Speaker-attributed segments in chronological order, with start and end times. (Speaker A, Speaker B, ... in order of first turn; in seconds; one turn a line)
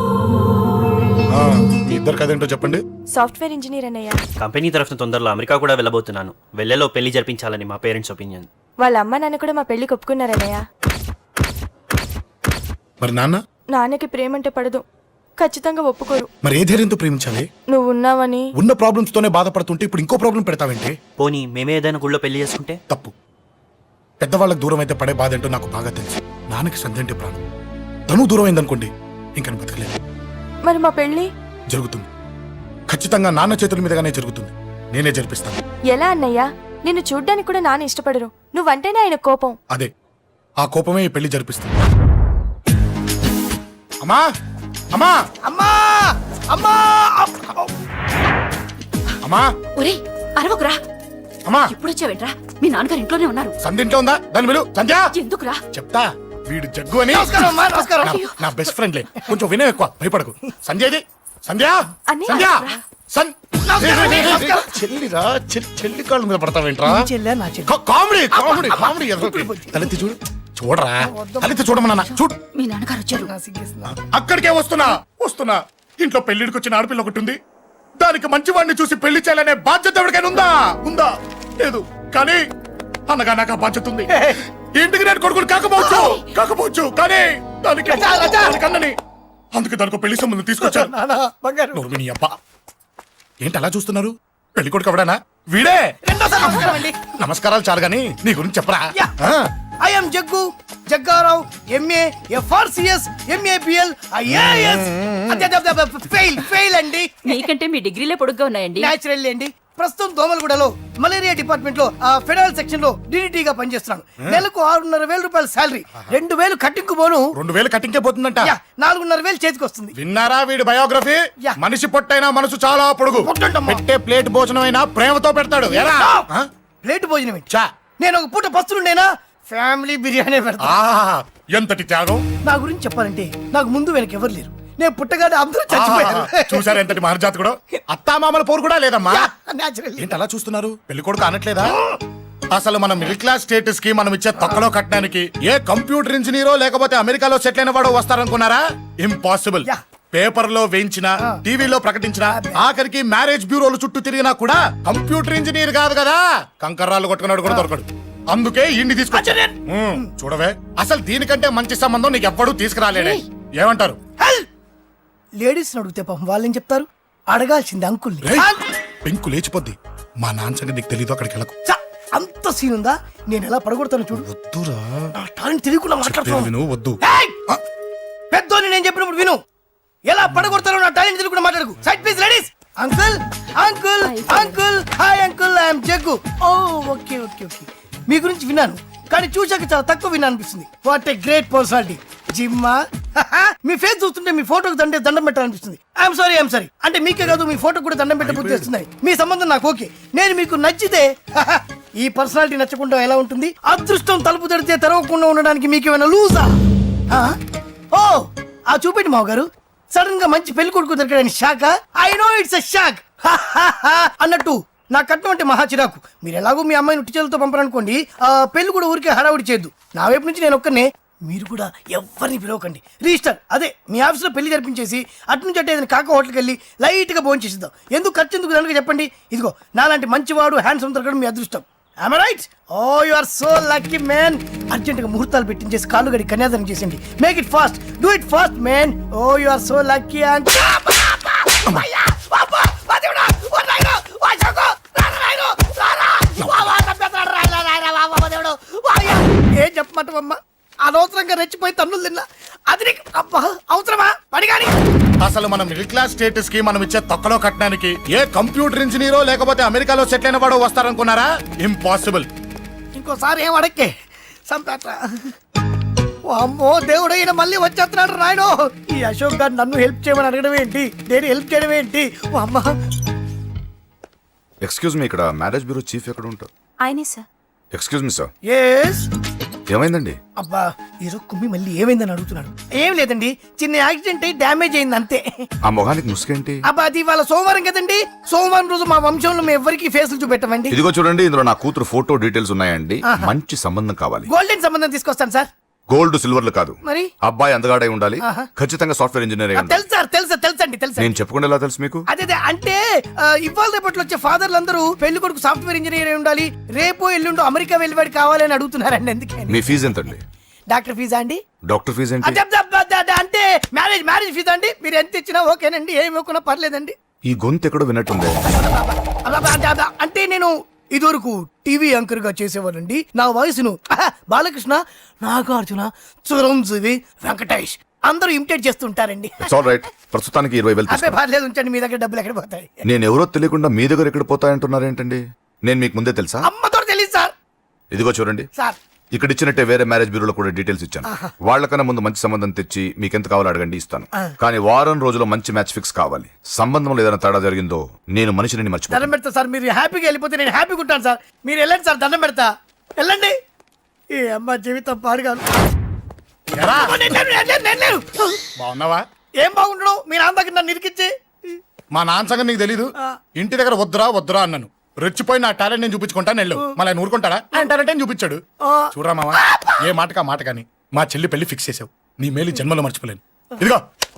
Speaker A: 1.3-2.8
Speaker B: 3.1-4.2
Speaker C: 4.4-8.5
Speaker B: 8.8-10.6
Speaker A: 13.0-13.4
Speaker B: 13.7-14.8
Speaker B: 15.4-16.3
Speaker A: 16.4-17.5
Speaker B: 17.7-18.5
Speaker A: 18.6-20.9
Speaker C: 21.2-22.8
Speaker A: 24.2-27.4
Speaker A: 28.1-30.0
Speaker B: 30.6-31.3
Speaker A: 31.7-32.1
Speaker A: 32.9-35.6
Speaker B: 35.9-39.5
Speaker A: 40.6-41.7
Speaker D: 45.4-47.7
Speaker A: 49.2-49.5
Speaker E: 49.8-50.8
Speaker A: 51.5-51.8
Speaker E: 51.7-53.5
Speaker A: 53.6-55.1
Speaker E: 55.1-55.6
Speaker A: 55.7-67.1
Speaker D: 57.1-58.2
Speaker B: 62.1-62.8
Speaker D: 63.6-64.7
Speaker D: 66.8-67.7
Speaker A: 67.6-72.3
Speaker D: 68.3-69.9
Speaker D: 71.0-71.6
Speaker E: 72.5-73.3
Speaker D: 73.2-73.9
Speaker A: 73.8-77.3
Speaker A: 78.0-82.4
Speaker A: 83.1-84.1
Speaker D: 84.1-84.4
Speaker A: 84.7-88.9
Speaker D: 87.9-88.5
Speaker A: 89.5-90.9
Speaker D: 90.6-91.8
Speaker A: 91.7-92.3
Speaker A: 93.4-99.5
Speaker D: 96.0-96.9
Speaker D: 99.8-107.3
Speaker A: 104.8-105.4
Speaker E: 107.2-108.9
Speaker D: 108.8-117.3
Speaker A: 117.3-118.5
Speaker D: 118.4-119.9
Speaker A: 119.9-126.5
Speaker D: 123.2-123.8
Speaker D: 125.8-126.3
Speaker D: 126.8-127.4
Speaker D: 128.0-130.7
Speaker A: 130.6-132.2
Speaker D: 132.4-136.9
Speaker A: 135.7-139.3
Speaker D: 139.1-140.2
Speaker A: 140.0-141.8
Speaker A: 142.5-164.0
Speaker D: 152.3-152.6
Speaker D: 159.1-160.1
Speaker D: 164.2-164.4
Speaker D: 165.4-168.6
Speaker A: 168.2-168.5
Speaker A: 169.0-171.5
Speaker D: 171.6-174.3
Speaker A: 174.1-175.1
Speaker D: 175.2-176.5
Speaker A: 176.0-177.0
Speaker D: 177.0-177.3
Speaker D: 178.3-179.4
Speaker D: 180.1-206.5
Speaker E: 184.0-184.6
Speaker A: 198.2-198.7
Speaker D: 207.9-254.7
Speaker A: 246.4-246.7
Speaker A: 255.2-262.2
Speaker D: 262.9-263.9
Speaker D: 264.5-265.3
Speaker D: 266.3-272.7
Speaker F: 274.6-276.5
Speaker F: 277.7-278.3
Speaker D: 278.4-279.1
Speaker F: 279.7-280.2
Speaker D: 280.4-285.4
Speaker F: 285.7-286.6
Speaker D: 286.6-290.7
Speaker F: 290.7-294.3
Speaker D: 294.3-295.5
Speaker F: 295.9-299.8
Speaker D: 296.8-297.1
Speaker D: 298.2-298.4
Speaker D: 299.5-301.1
Speaker F: 301.0-302.0
Speaker D: 302.1-309.6
Speaker F: 309.5-310.2
Speaker D: 310.7-311.4
Speaker F: 311.7-312.4
Speaker D: 312.2-316.9
Speaker F: 317.3-318.4
Speaker D: 318.5-329.5
Speaker F: 329.4-331.2
Speaker D: 330.9-332.7
Speaker F: 332.8-336.5
Speaker D: 336.4-337.3
Speaker F: 337.9-338.5
Speaker F: 339.1-349.1
Speaker D: 348.9-353.3
Speaker D: 354.1-355.5
Speaker A: 356.5-357.0
Speaker D: 356.9-358.4
Speaker A: 358.6-359.0
Speaker D: 359.4-361.6
Speaker A: 361.9-368.4
Speaker A: 368.9-373.8